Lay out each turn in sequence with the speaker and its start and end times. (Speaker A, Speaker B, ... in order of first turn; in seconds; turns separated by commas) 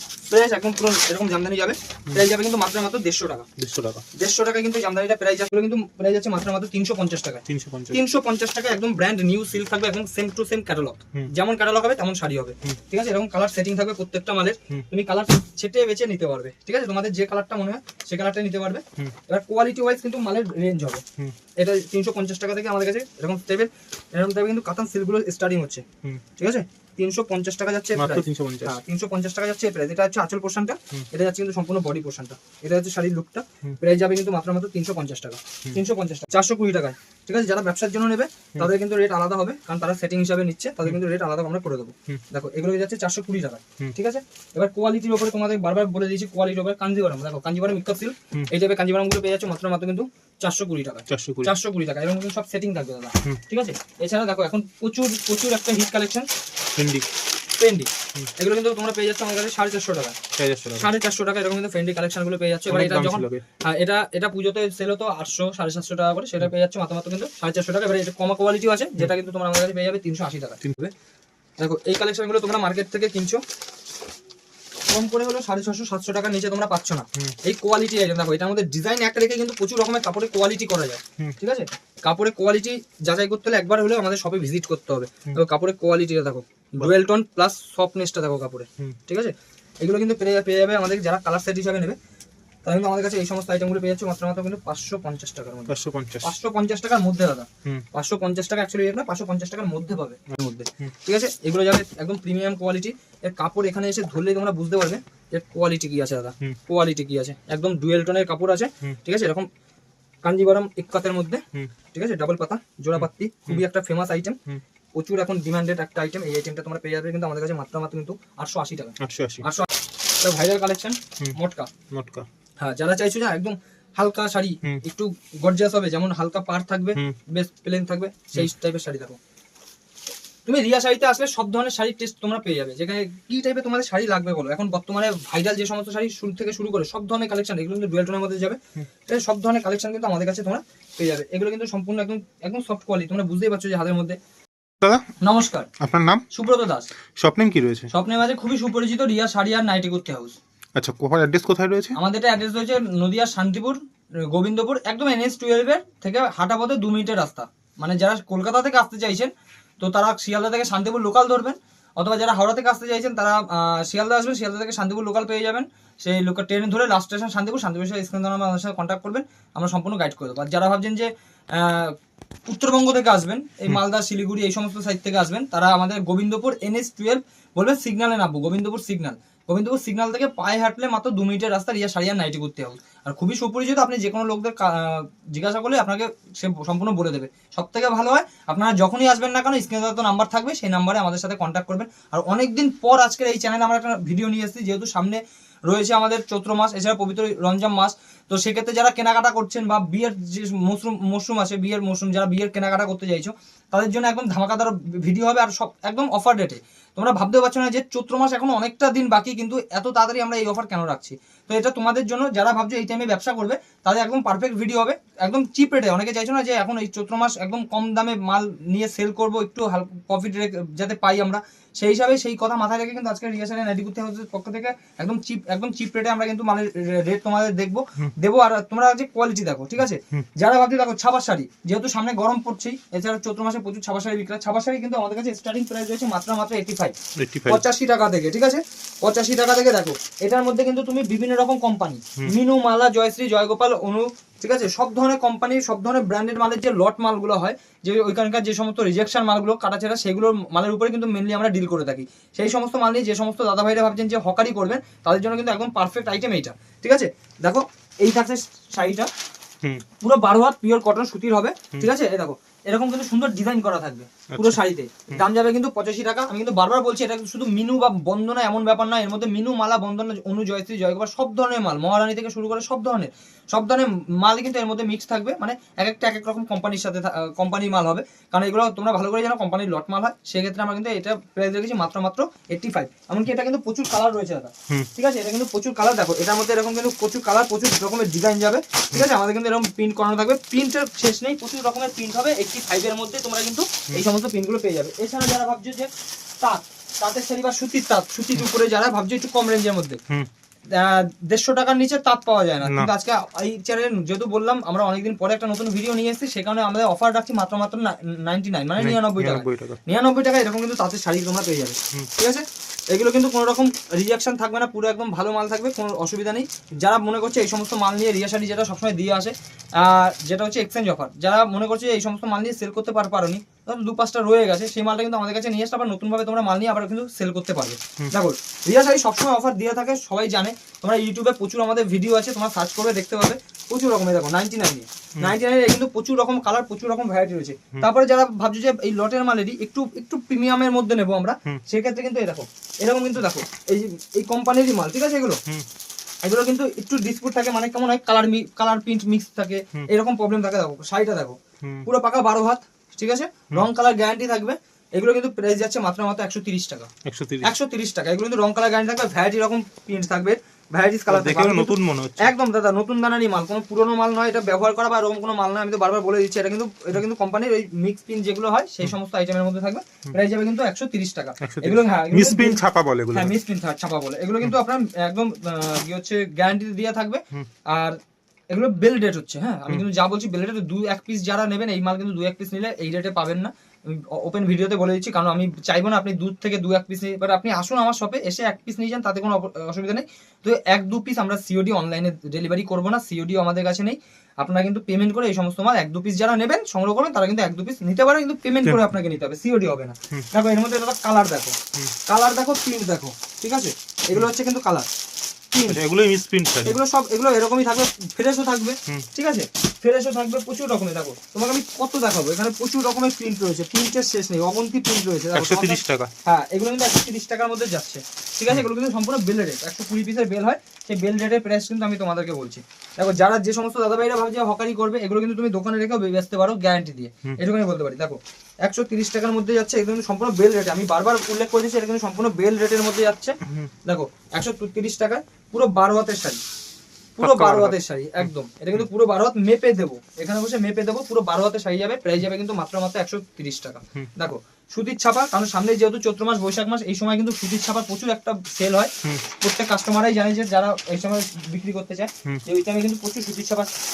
Speaker A: 0.3-3.5, Speaker B: 3.6-4.1, Speaker A: 4.2-21.1, Speaker B: 7.5-8.0, Speaker A: 21.6-25.9, Speaker A: 26.4-56.3, Speaker B: 28.0-28.8, Speaker B: 51.1-51.5, Speaker B: 56.8-57.1, Speaker A: 57.6-60.2, Speaker B: 60.4-60.9, Speaker A: 60.8-70.6, Speaker B: 62.7-63.5, Speaker B: 70.6-70.9, Speaker A: 71.6-73.4, Speaker A: 74.9-92.0, Speaker A: 92.7-109.5, Speaker B: 95.7-96.4, Speaker B: 100.3-100.9, Speaker A: 110.2-114.4, Speaker B: 113.0-113.6, Speaker A: 115.0-119.7, Speaker B: 119.0-119.5, Speaker A: 120.2-121.7, Speaker B: 121.9-122.3, Speaker A: 122.6-129.2, Speaker A: 130.5-144.2, Speaker B: 144.8-145.1, Speaker A: 145.2-145.7, Speaker B: 145.8-146.3, Speaker A: 146.3-146.9, Speaker B: 147.2-147.9, Speaker A: 147.9-150.4, Speaker B: 150.8-152.0, Speaker A: 151.9-171.9, Speaker A: 172.5-236.9, Speaker B: 237.2-237.6, Speaker A: 237.5-259.1, Speaker A: 260.0-295.9, Speaker B: 264.3-264.6, Speaker A: 296.4-300.0, Speaker A: 300.7-345.4, Speaker B: 302.6-302.9, Speaker B: 308.8-309.8, Speaker A: 346.2-356.9, Speaker B: 351.6-351.9, Speaker B: 357.1-357.5, Speaker A: 357.4-378.0, Speaker B: 361.1-362.3, Speaker B: 371.4-373.4, Speaker A: 378.5-404.9, Speaker A: 405.5-405.8, Speaker B: 405.6-406.8, Speaker A: 406.6-436.4, Speaker B: 415.3-416.1, Speaker B: 433.4-433.7, Speaker A: 437.2-453.7, Speaker B: 437.2-438.3